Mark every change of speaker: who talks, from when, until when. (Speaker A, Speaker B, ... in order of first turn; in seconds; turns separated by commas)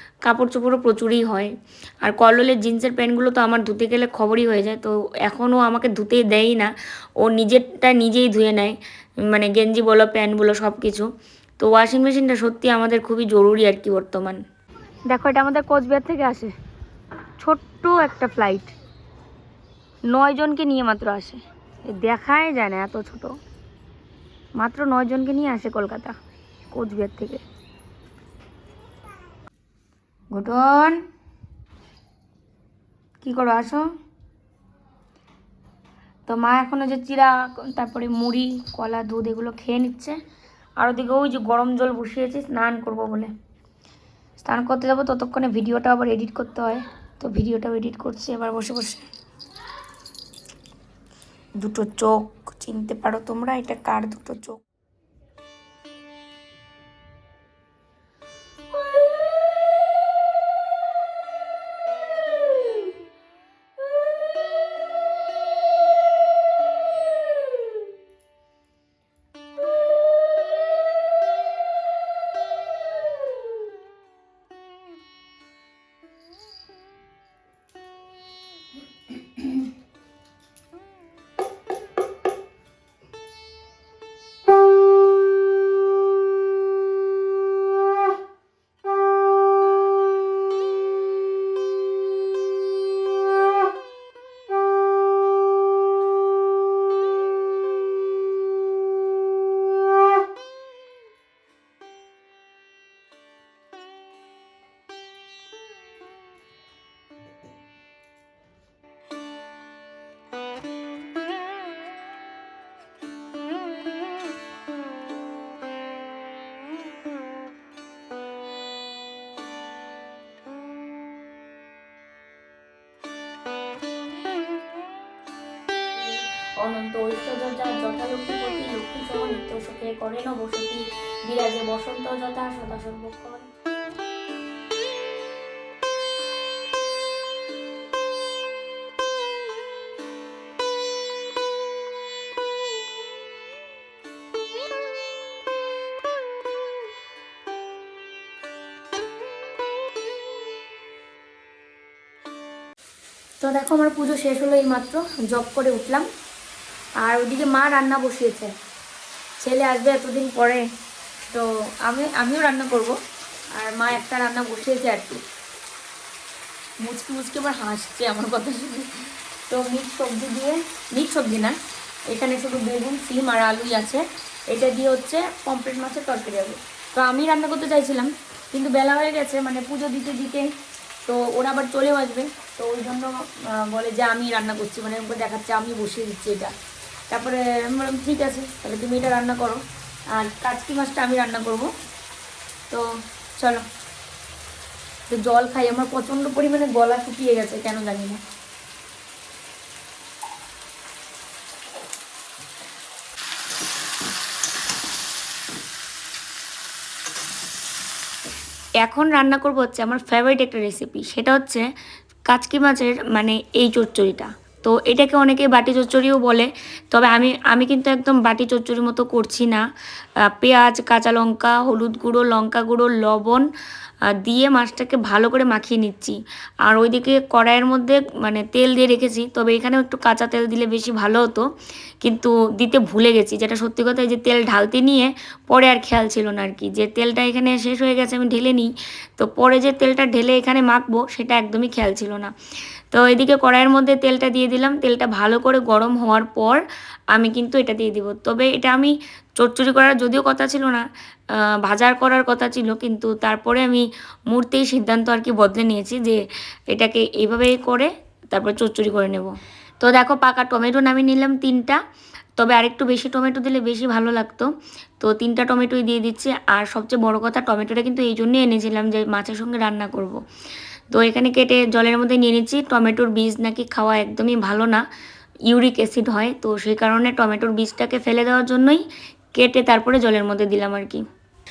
Speaker A: 0.2-14.4, Speaker A: 15.1-16.5, Speaker A: 17.4-18.8, Speaker A: 20.1-23.4, Speaker A: 24.6-26.2, Speaker A: 26.7-27.4, Speaker A: 30.3-31.0, Speaker A: 33.2-33.9, Speaker A: 36.3-40.2, Speaker A: 40.8-43.3, Speaker A: 44.4-49.1, Speaker A: 51.6-54.6, Speaker A: 126.0-133.5, Speaker A: 153.4-156.1, Speaker A: 157.0-158.5, Speaker A: 159.4-160.7, Speaker A: 161.3-163.0, Speaker A: 163.5-165.2, Speaker A: 166.8-171.6, Speaker A: 172.1-180.5, Speaker A: 181.1-186.5, Speaker A: 187.1-191.7, Speaker A: 193.4-193.7, Speaker A: 195.1-198.2, Speaker A: 208.8-211.7, Speaker A: 212.3-219.7, Speaker A: 220.3-223.5, Speaker A: 224.1-231.5, Speaker A: 232.0-242.3, Speaker A: 242.9-246.6, Speaker A: 247.1-261.8, Speaker A: 262.4-270.2, Speaker A: 270.9-274.8, Speaker A: 275.5-278.9, Speaker A: 279.4-281.0